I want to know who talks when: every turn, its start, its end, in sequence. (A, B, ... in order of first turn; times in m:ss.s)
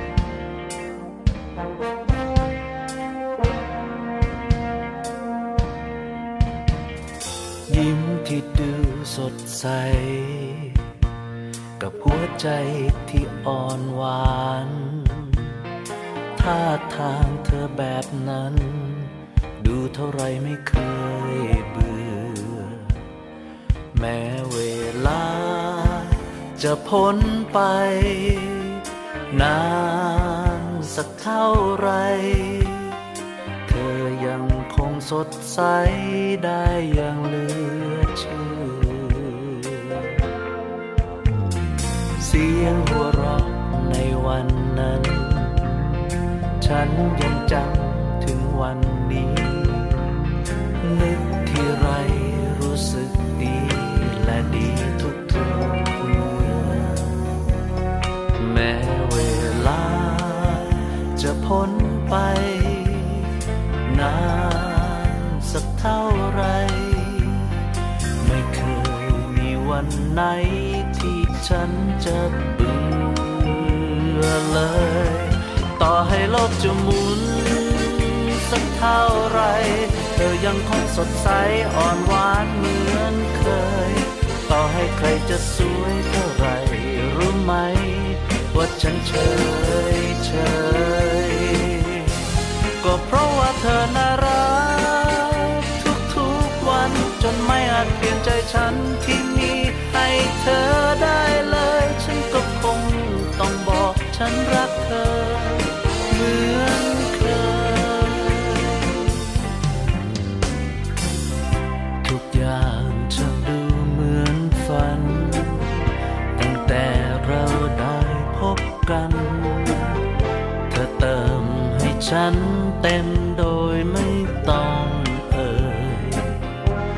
0:07.7-0:10.8 A
0:11.8-0:15.5 A
0:16.4-0:22.9 A
0:23.9-0:33.0 A
0:33.7-0:40.1 A
0:42.2-0:50.2 A
0:50.8-0:57.4 A
0:58.4-1:03.3 A
1:03.9-1:07.5 A
1:08.2-1:32.3 A
1:32.8-1:49.2 A
1:52.0-1:55.7 A
1:56.3-2:00.0 A
2:00.7-2:06.4 A